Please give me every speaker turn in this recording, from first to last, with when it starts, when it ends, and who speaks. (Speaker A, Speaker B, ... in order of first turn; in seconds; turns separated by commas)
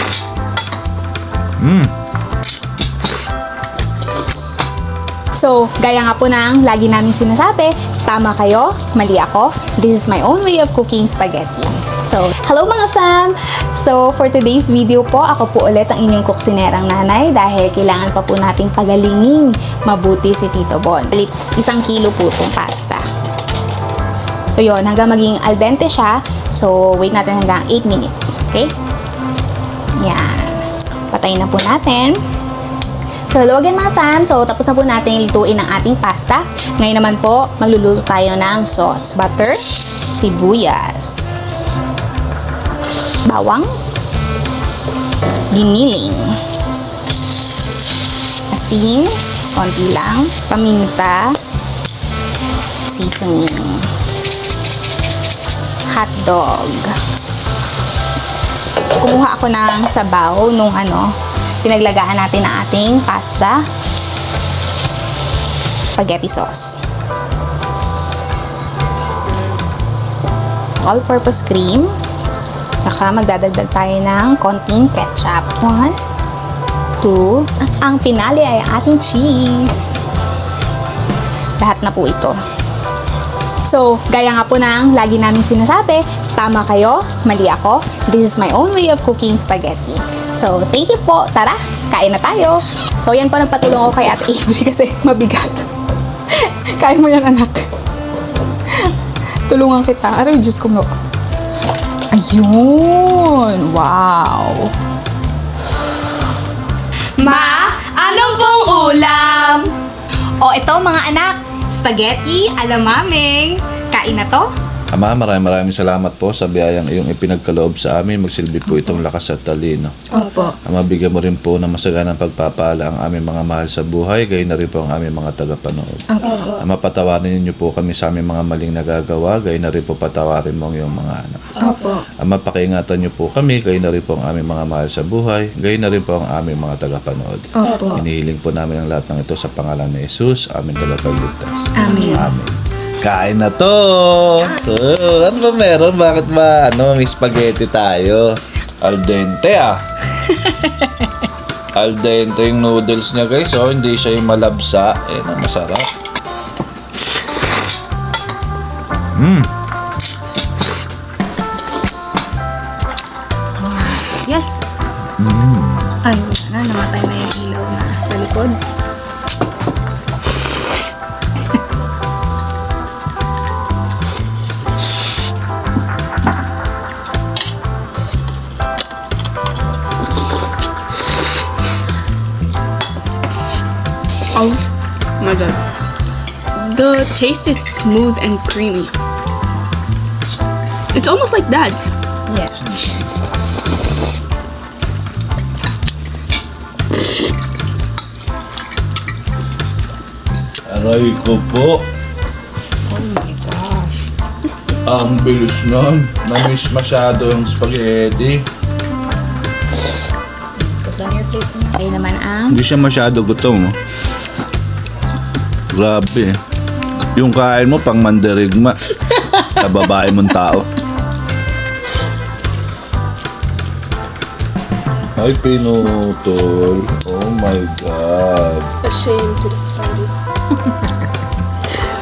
Speaker A: 1.6-1.9, Speaker B: 5.3-23.0, Speaker B: 24.6-28.7, Speaker B: 30.0-32.2, Speaker B: 33.3-39.6, Speaker B: 40.1-41.5, Speaker B: 43.3-43.7, Speaker B: 45.5-46.3, Speaker B: 48.5-51.3, Speaker B: 52.9-53.9, Speaker B: 55.9-56.9, Speaker B: 59.0-61.1, Speaker B: 61.6-63.6, Speaker B: 66.0-66.8, Speaker B: 70.8-71.9, Speaker B: 72.8-76.0, Speaker B: 77.0-80.0, Speaker B: 81.6-82.4, Speaker B: 83.6-95.7, Speaker B: 96.3-97.7, Speaker B: 99.5-100.9, Speaker B: 102.1-104.7, Speaker C: 107.2-109.6, Speaker B: 110.4-114.5, Speaker A: 114.9-120.0, Speaker B: 120.1-120.5, Speaker A: 120.6-131.6, Speaker B: 131.6-132.0, Speaker A: 132.2-149.8, Speaker B: 137.6-138.0, Speaker B: 141.8-142.2, Speaker A: 151.8-155.9, Speaker A: 159.2-159.5, Speaker B: 163.6-164.6, Speaker A: 165.2-165.9, Speaker B: 166.0-168.6, Speaker C: 184.3-184.6, Speaker C: 185.2-185.6, Speaker C: 186.6-188.9, Speaker C: 190.9-191.9, Speaker B: 192.3-192.5, Speaker A: 200.7-201.8, Speaker B: 202.9-203.9, Speaker A: 204.8-208.4, Speaker B: 210.6-212.6, Speaker A: 212.5-213.8, Speaker A: 215.7-216.3, Speaker A: 217.1-218.8, Speaker A: 219.4-220.7, Speaker A: 225.2-228.7, Speaker C: 228.8-230.1